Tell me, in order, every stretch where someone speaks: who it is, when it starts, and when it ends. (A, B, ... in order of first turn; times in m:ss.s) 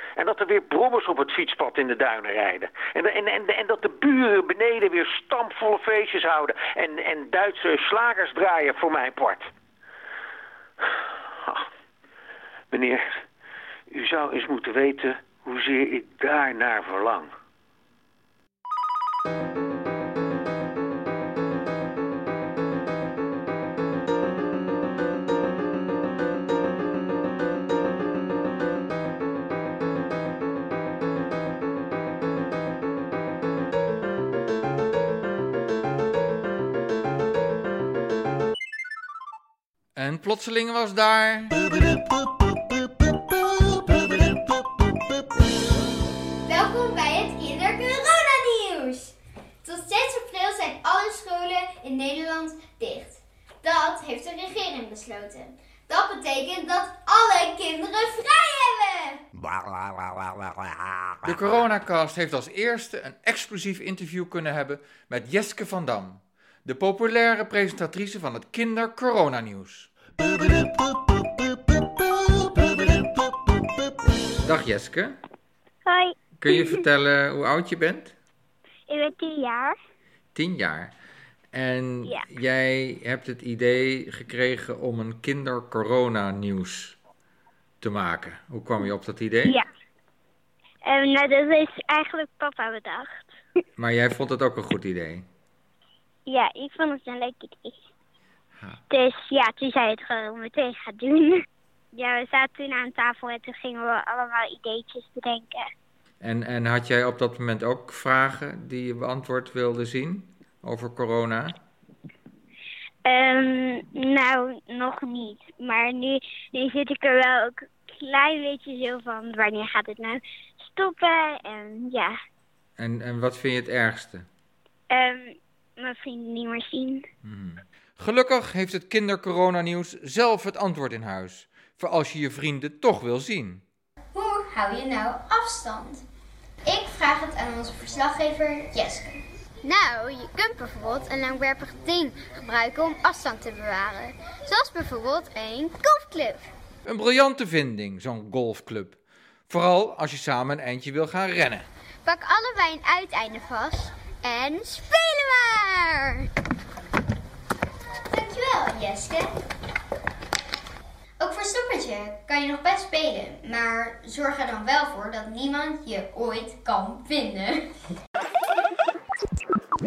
0:00.2-0:09.5 A
0:11.4-0:11.7 A
0:12.7-0:13.0 A
0:13.9-0:17.3 A
0:40.0-0:41.6 B
0:46.5-0:59.2 C
1:01.2-1:09.9 B
1:14.4-1:15.2 B
1:15.9-1:16.2 D
1:16.4-1:18.1 B
1:18.9-1:19.8 D
1:20.4-1:21.0 B
1:21.5-1:27.0 B
1:27.8-1:29.6 B
1:30.8-1:33.3 D
1:33.8-1:35.2 B
1:36.3-1:37.8 D
1:38.9-1:41.4 D
1:41.9-1:45.6 D
1:46.2-1:51.6 B
1:53.0-2:02.2 D
2:02.8-2:04.3 B
2:04.9-2:07.0 D
2:07.2-2:13.6 B
2:14.1-2:16.0 C
2:16.6-2:26.5 C
2:26.8-2:31.7 B
2:32.0-2:36.2 C
2:38.1-2:39.3 C
2:41.2-2:47.7 C